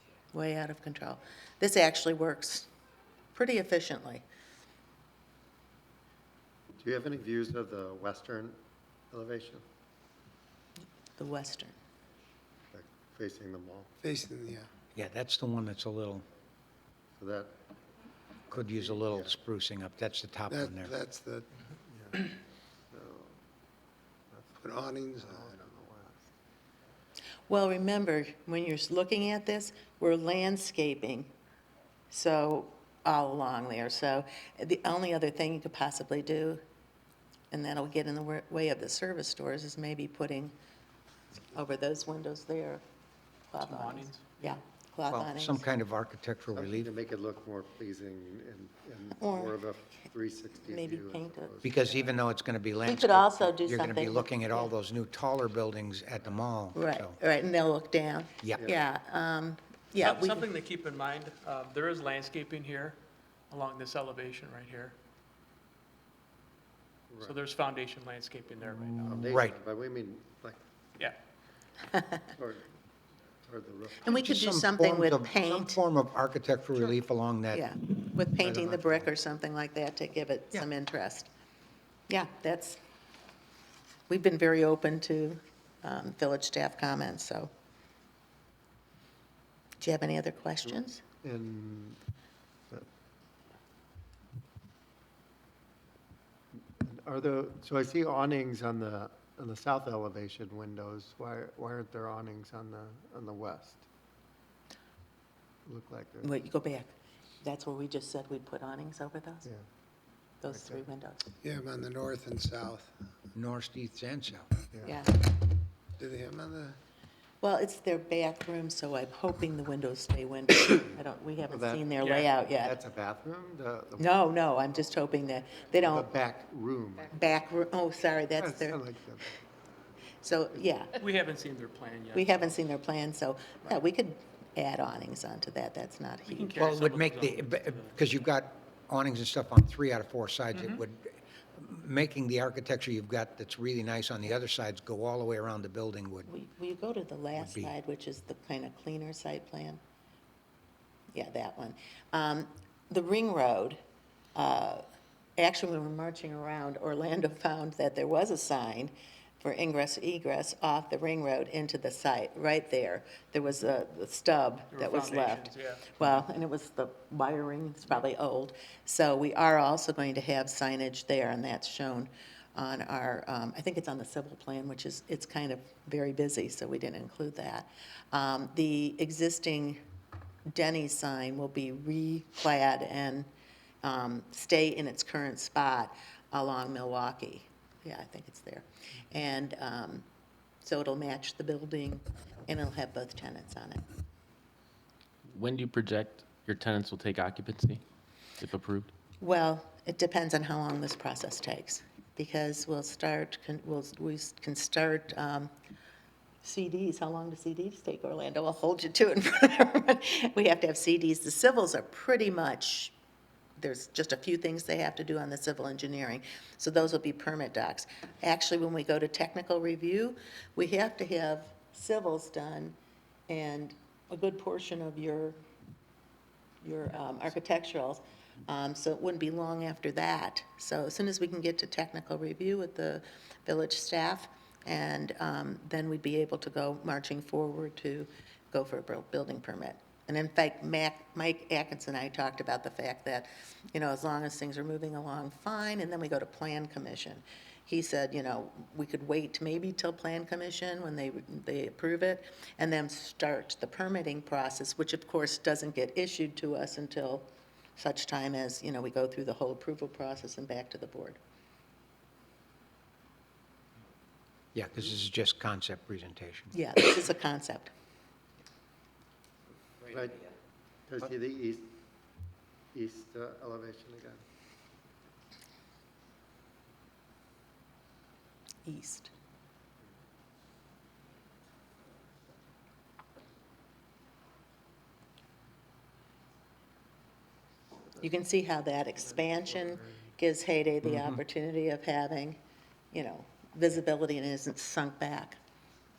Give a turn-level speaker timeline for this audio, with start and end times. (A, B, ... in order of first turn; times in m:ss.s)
0:00.3-0:02.7 A
0:03.3-0:04.2 A
0:06.8-0:08.6 B
0:09.1-0:09.6 B
0:11.2-0:11.7 A
0:12.7-0:13.9 B
0:14.0-0:14.7 C
0:14.9-0:16.2 D
0:17.2-0:17.5 B
0:18.5-0:20.9 D
0:18.5-0:19.3 B
0:20.5-0:21.5 C
0:21.8-0:22.3 B
0:22.9-0:23.4 B
0:24.3-0:24.6 B
0:24.6-0:25.5 C
0:25.2-0:26.3 B
0:27.5-0:31.3 A
0:32.1-0:36.6 A
0:37.5-0:40.5 A
0:41.5-0:42.8 A
0:43.5-0:45.6 A
0:43.6-0:44.5 E
0:45.1-0:46.9 D
0:46.5-0:52.1 B
0:49.2-0:49.6 A
0:50.7-0:51.5 A
0:51.6-0:57.2 D
0:52.8-0:54.7 A
0:56.7-1:00.5 A
1:00.0-1:03.0 E
1:03.5-1:05.0 E
1:07.1-1:07.4 B
1:07.2-1:09.2 E
1:09.0-1:10.6 B
1:09.1-1:09.5 D
1:12.3-1:12.7 B
1:13.4-1:14.1 B
1:14.0-1:15.8 A
1:14.1-1:17.7 D
1:17.5-1:21.3 A
1:18.4-1:19.1 B
1:22.1-1:22.8 A
1:24.1-1:27.5 A
1:29.8-1:31.0 A
1:30.6-1:32.0 B
1:36.7-1:43.8 B
1:45.6-1:46.3 B
1:46.2-1:49.5 A
1:50.4-1:51.3 A
1:50.5-1:50.8 B
1:51.4-1:52.9 C
1:53.3-1:54.5 D
1:54.8-1:55.2 A
1:56.0-1:56.8 C
1:57.4-2:02.8 A
2:01.5-2:04.2 B
2:02.0-2:02.3 E
2:04.0-2:06.1 A
2:05.8-2:07.1 B
2:07.1-2:08.8 A
2:08.4-2:09.4 B
2:10.2-2:11.0 A
2:11.0-2:12.6 E
2:12.1-2:16.7 A
2:16.3-2:18.0 E
2:16.6-2:26.3 D
2:20.5-2:20.8 E
2:26.3-2:29.8 A
2:27.4-2:27.7 D
2:31.1-2:33.8 A
2:34.3-2:34.8 A
2:35.4-2:59.8 A
2:44.7-2:45.9 E
3:00.5-3:03.3 A
3:03.8-3:10.0 A
3:10.6-3:13.8 A
3:15.3-3:17.8 F
3:18.4-3:18.9 F
3:19.2-3:25.5 A
3:26.4-3:32.9 A
3:33.6-3:42.7 A
3:43.3-3:45.4 A
3:46.6-4:21.2 A
4:24.5-4:26.5 D
4:26.5-4:27.7 A
4:29.8-4:30.3 B
4:30.9-4:31.8 B
4:32.7-4:34.2 B
4:38.6-4:39.1 A
4:48.0-4:52.4 A
4:50.8-4:51.2 D
4:52.9-4:55.4 A